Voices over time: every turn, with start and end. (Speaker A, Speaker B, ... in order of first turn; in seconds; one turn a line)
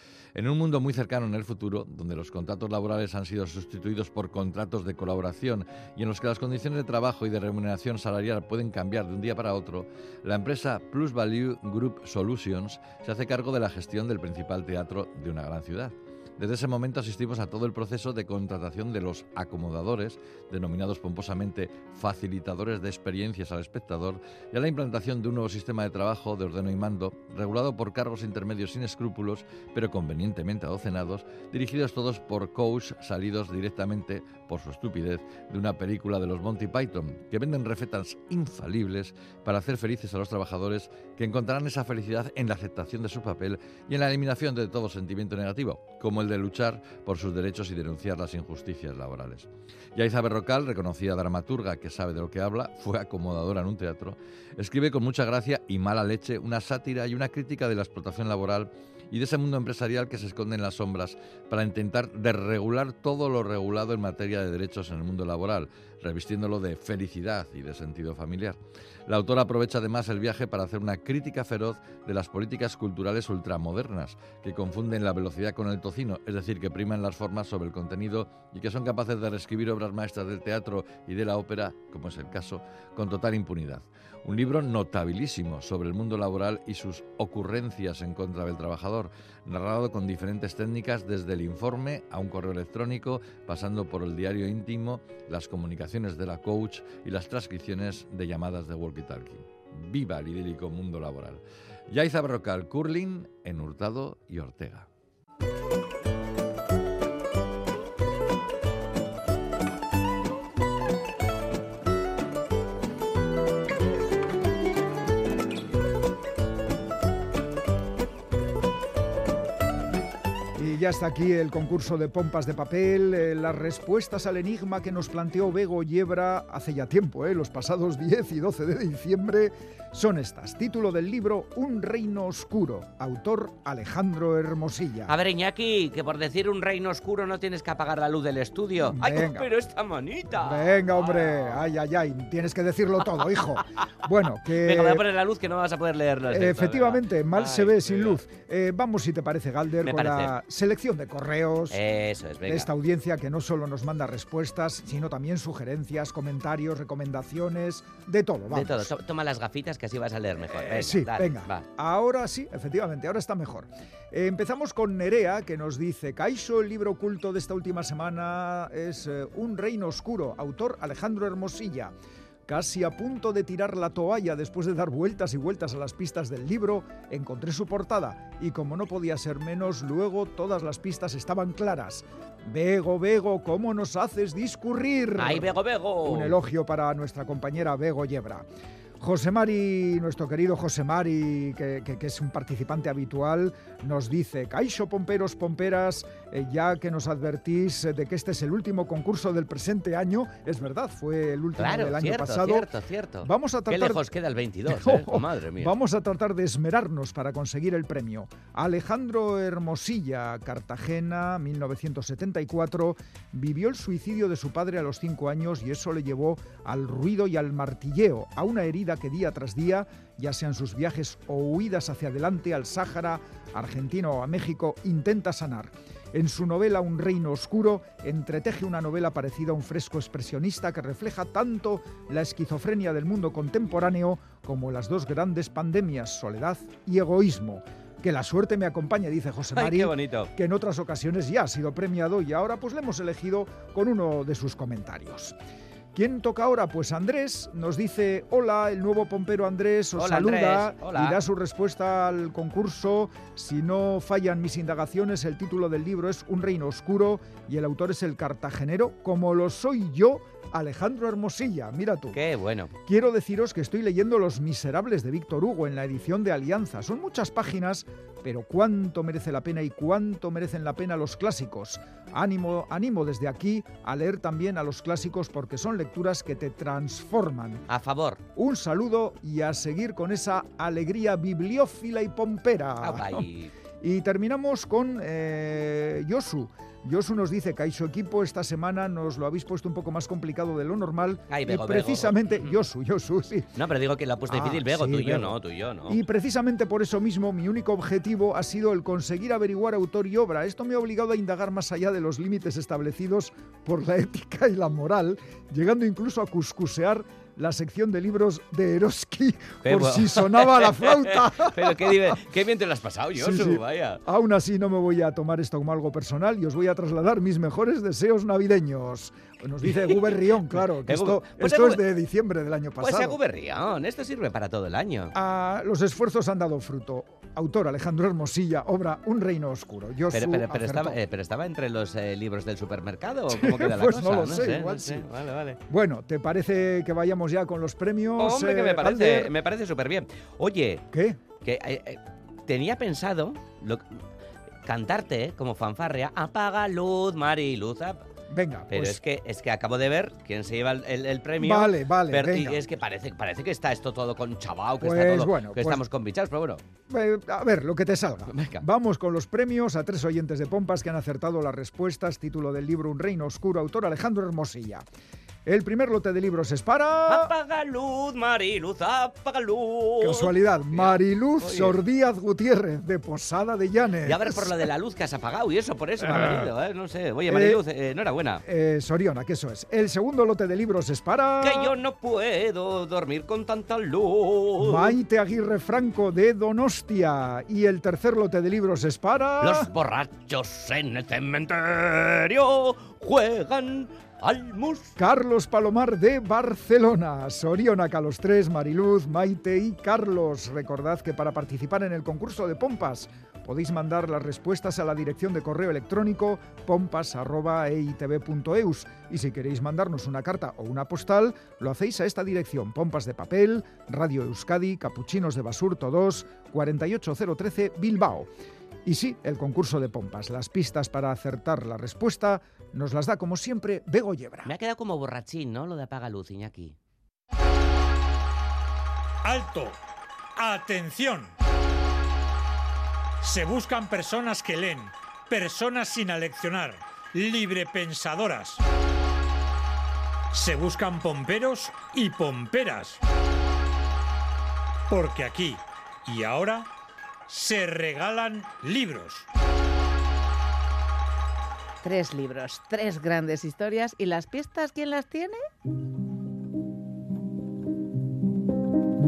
Speaker A: 0.3-104.9
Speaker B: 120.6-135.1
Speaker C: 135.1-141.6
Speaker B: 138.9-139.5
Speaker B: 140.4-145.0
Speaker C: 144.6-148.2
Speaker B: 146.3-151.8
Speaker C: 149.8-150.3
Speaker C: 151.7-152.7
Speaker B: 152.4-158.9
Speaker C: 158.5-161.7
Speaker B: 160.5-171.9
Speaker B: 172.5-188.5
Speaker C: 185.2-186.4
Speaker B: 189.0-202.7
Speaker C: 201.6-205.7
Speaker B: 203.2-204.0
Speaker B: 204.7-245.4
Speaker C: 239.5-240.3
Speaker B: 245.9-262.2
Speaker C: 250.0-251.2
Speaker C: 262.1-262.7
Speaker B: 262.9-277.6
Speaker C: 277.7-278.2
Speaker B: 278.4-283.2
Speaker C: 282.8-283.5
Speaker B: 283.8-293.5
Speaker C: 291.3-292.5
Speaker C: 293.6-296.0
Speaker B: 294.3-312.2
Speaker C: 309.6-314.0
Speaker B: 313.2-323.2
Speaker C: 320.9-321.8
Speaker C: 322.8-325.1
Speaker B: 325.1-331.0
Speaker C: 330.1-335.6
Speaker B: 333.3-335.1
Speaker B: 335.7-339.3
Speaker C: 338.2-340.9
Speaker B: 340.9-341.2
Speaker C: 341.4-344.0
Speaker C: 344.6-348.1
Speaker B: 348.3-349.0
Speaker C: 348.7-356.6
Speaker B: 351.4-352.6
Speaker B: 354.8-355.8
Speaker B: 356.9-364.9
Speaker C: 358.3-358.6
Speaker B: 365.5-367.3
Speaker C: 367.1-371.8
Speaker B: 370.0-374.6
Speaker C: 374.1-378.4
Speaker B: 376.0-376.5
Speaker B: 377.3-377.6
Speaker B: 378.4-381.8
Speaker C: 381.4-384.9
Speaker B: 384.6-389.7
Speaker C: 389.4-394.9
Speaker B: 395.0-418.3
Speaker B: 418.9-424.5
Speaker C: 424.4-426.8
Speaker D: 429.2-429.8
Speaker D: 430.4-431.3
Speaker D: 433.2-438.6
Speaker D: 440.3-443.0
Speaker D: 444.9-446.7
Speaker D: 447.3-449.3
Speaker E: 451.8-455.4